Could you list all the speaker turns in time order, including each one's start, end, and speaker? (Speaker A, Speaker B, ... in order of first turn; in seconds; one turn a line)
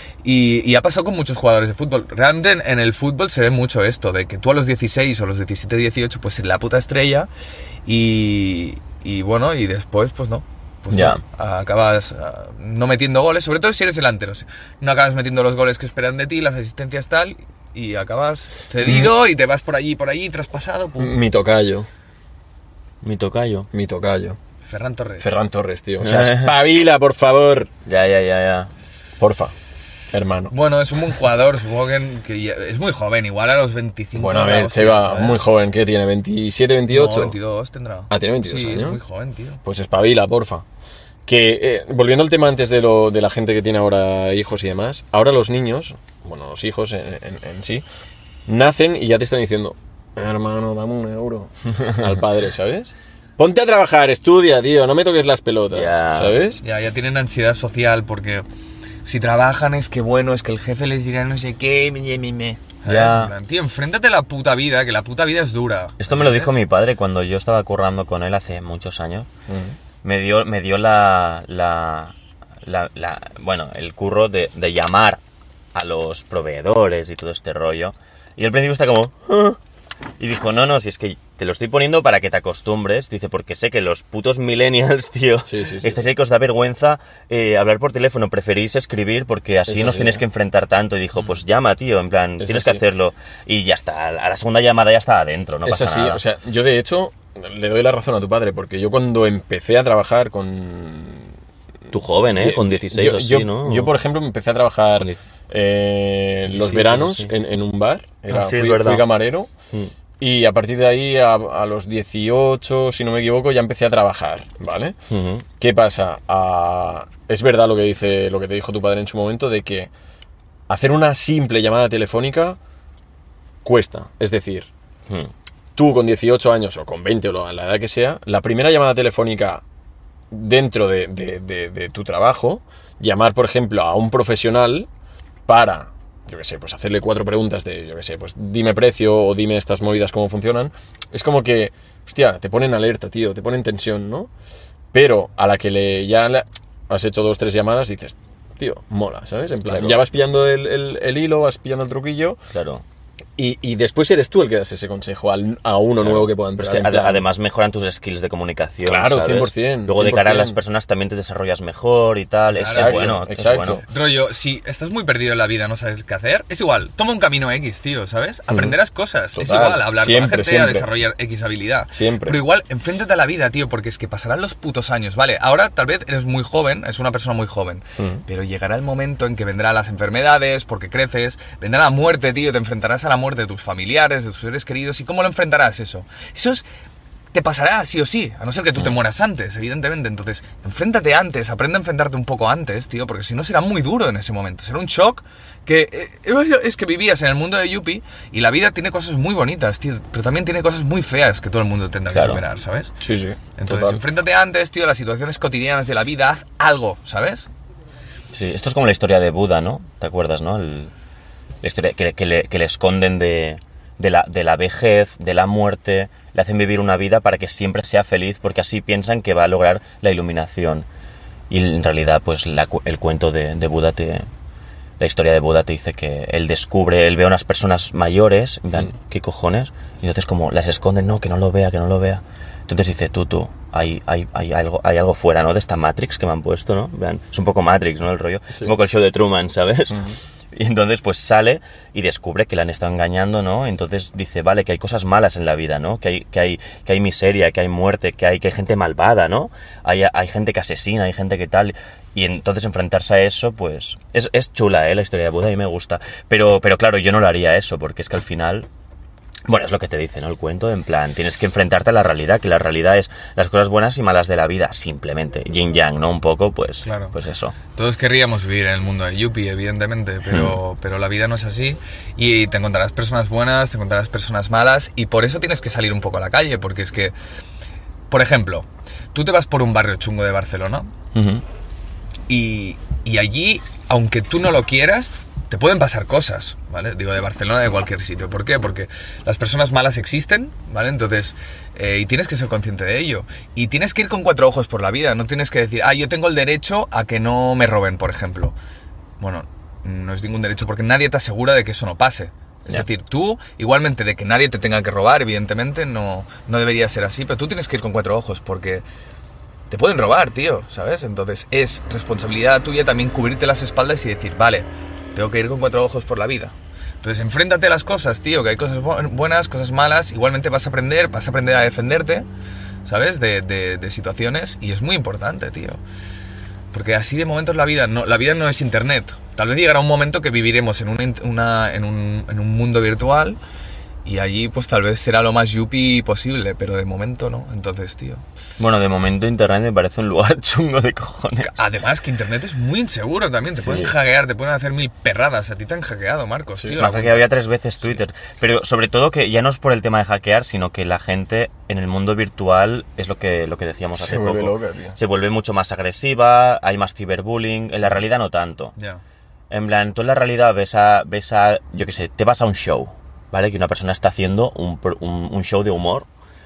Speaker A: 0.2-7.3
Speaker A: 7.9-21.1
Speaker B: 10.9-11.2
Speaker B: 18.8-19.1
Speaker B: 21.0-21.9
Speaker C: 23.0-23.7
Speaker B: 23.7-24.4
Speaker A: 24.6-25.4
Speaker B: 25.2-27.7
Speaker C: 26.0-26.6
Speaker C: 27.9-28.7
Speaker B: 29.2-29.5
Speaker B: 30.1-30.5
Speaker A: 30.5-35.5
Speaker B: 34.1-37.4
Speaker A: 36.9-39.6
Speaker B: 38.1-39.0
Speaker B: 39.6-40.6
Speaker B: 41.3-47.8
Speaker B: 48.5-56.6
Speaker C: 55.7-56.4
Speaker A: 56.6-58.5
Speaker A: 59.0-66.6
Speaker C: 62.9-63.3
Speaker C: 66.0-69.3
Speaker B: 69.5-69.8
Speaker C: 70.0-75.2
Speaker C: 75.7-79.6
Speaker C: 80.2-96.2
Speaker B: 85.5-86.0
Speaker B: 89.7-90.2
Speaker B: 92.4-92.8
Speaker B: 95.7-101.3
Speaker C: 101.9-103.9
Speaker B: 102.4-109.5
Speaker C: 106.5-107.3
Speaker C: 108.3-109.1
Speaker B: 110.2-115.0
Speaker C: 115.1-115.5
Speaker B: 115.6-119.9
Speaker B: 120.7-122.6
Speaker B: 123.6-124.7
Speaker B: 125.8-129.6
Speaker B: 130.3-134.9
Speaker B: 135.5-144.3
Speaker B: 144.9-152.4
Speaker C: 149.7-150.0
Speaker C: 152.5-152.8
Speaker B: 153.4-157.2
Speaker C: 156.0-163.8
Speaker B: 158.8-160.6
Speaker A: 162.5-163.2
Speaker B: 162.7-163.8
Speaker A: 163.9-186.7
Speaker B: 168.5-168.8
Speaker B: 169.3-170.9
Speaker B: 171.9-172.4
Speaker B: 178.0-178.2
Speaker A: 187.3-202.9
Speaker C: 202.1-202.4
Speaker B: 203.0-204.0
Speaker A: 203.6-207.5
Speaker C: 208.3-210.9
Speaker C: 211.6-220.9
Speaker C: 221.5-224.3
Speaker C: 225.0-258.7
Speaker C: 259.5-267.6
Speaker A: 266.8-267.1
Speaker A: 267.7-277.1
Speaker C: 270.3-270.6
Speaker A: 278.1-280.9
Speaker C: 281.1-281.4
Speaker A: 282.3-298.6
Speaker A: 299.2-308.8
Speaker A: 309.7-322.3
Speaker A: 322.9-325.8
Speaker A: 326.7-333.4
Speaker A: 334.1-338.2
Speaker C: 338.6-341.6
Speaker A: 341.4-347.3
Speaker C: 343.6-343.9
Speaker C: 346.7-358.7
Speaker B: 354.0-355.0
Speaker A: 358.8-359.0
Speaker C: 359.5-366.1